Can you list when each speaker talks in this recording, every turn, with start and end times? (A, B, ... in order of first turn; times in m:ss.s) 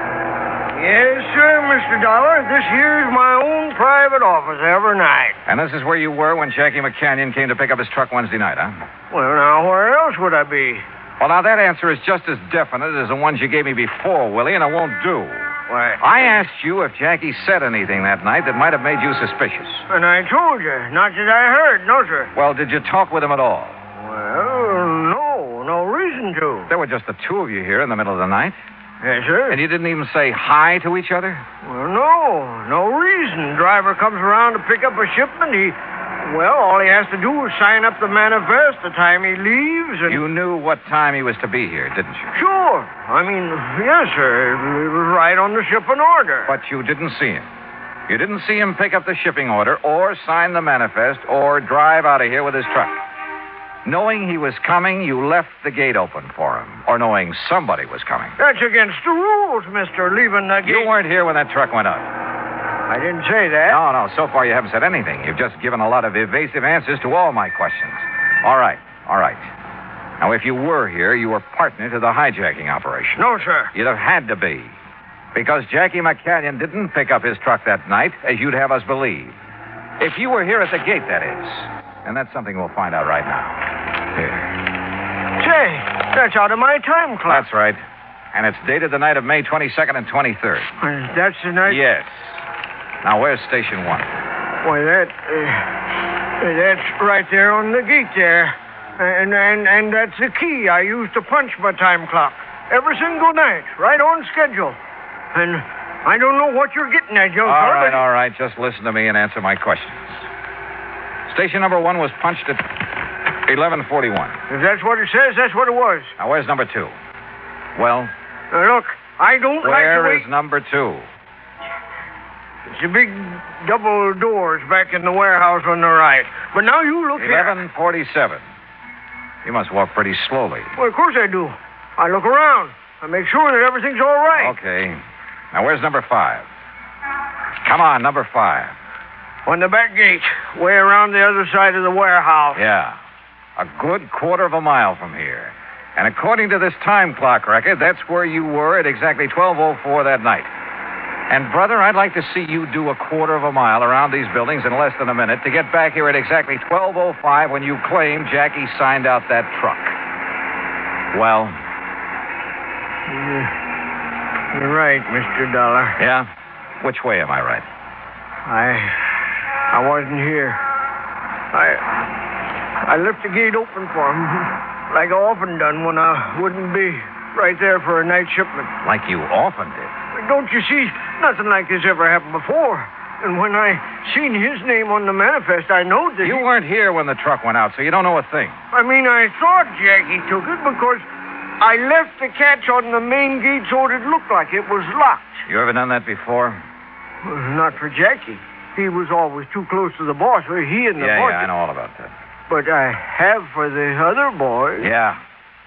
0:00.7-0:05.4 A
0:05.4-0:08.8 B
0:09.1-0:10.8 A
0:11.2-0:19.8 B
0:15.7-0:16.0 A
0:19.9-0:22.3 A
0:22.3-0:23.8 B
0:24.0-0:26.7 A
0:26.7-0:28.6 B
0:29.0-0:29.6 A
0:29.5-0:31.4 B
0:31.6-0:40.2 A
0:40.1-0:42.3 B
0:42.3-0:46.5 A
0:46.5-0:47.5 B
0:48.1-0:53.0 B
0:53.8-0:58.4 B
0:58.4-1:00.9 A
1:00.6-1:02.1 B
1:02.9-1:03.8 A
1:03.7-1:09.5 B
1:10.2-1:13.2 B
1:13.2-1:13.7 A
1:13.7-1:14.7 B
1:15.3-1:19.4 B
1:20.0-1:23.6 B
1:24.2-1:24.5 B
1:25.4-1:27.5 A
1:27.3-1:27.8 B
1:28.3-1:30.7 B
1:30.8-1:31.8 A
1:31.6-1:32.4 B
1:33.0-1:34.1 B
1:34.6-1:35.7 A
1:36.4-1:44.8 A
1:45.3-1:48.0 A
1:47.4-1:50.2 B
1:51.3-1:52.7 B
1:53.4-1:54.4 B
1:54.5-1:56.1 A
1:56.2-1:56.9 B
1:57.7-1:58.1 B
1:58.5-2:00.2 A
1:59.6-2:01.1 B
2:02.7-2:07.6 A
2:07.2-2:08.4 B
2:09.4-2:10.7 B
2:10.8-2:14.5 A
2:14.4-2:15.0 B
2:15.5-2:16.4 B
2:17.6-2:18.7 B
2:19.4-2:22.6 A
2:22.5-2:23.0 B
2:23.6-2:30.5 B
2:31.3-2:39.9 B
2:41.1-2:41.6 B
2:43.1-2:43.5 A
2:44.5-2:46.0 A
2:46.0-2:46.3 B
2:46.8-2:47.6 B
2:48.4-2:49.1 A
2:49.7-2:50.6 A
2:51.5-2:52.0 A
2:52.8-2:58.7 A
2:58.8-2:59.9 B
3:00.1-3:06.4 A
3:06.2-3:08.6 B
3:08.7-3:11.0 A
3:11.6-3:15.4 A
3:15.5-3:16.6 B
3:17.2-3:21.5 A
3:21.0-3:22.1 B
3:22.5-3:24.9 A
3:24.8-3:25.2 B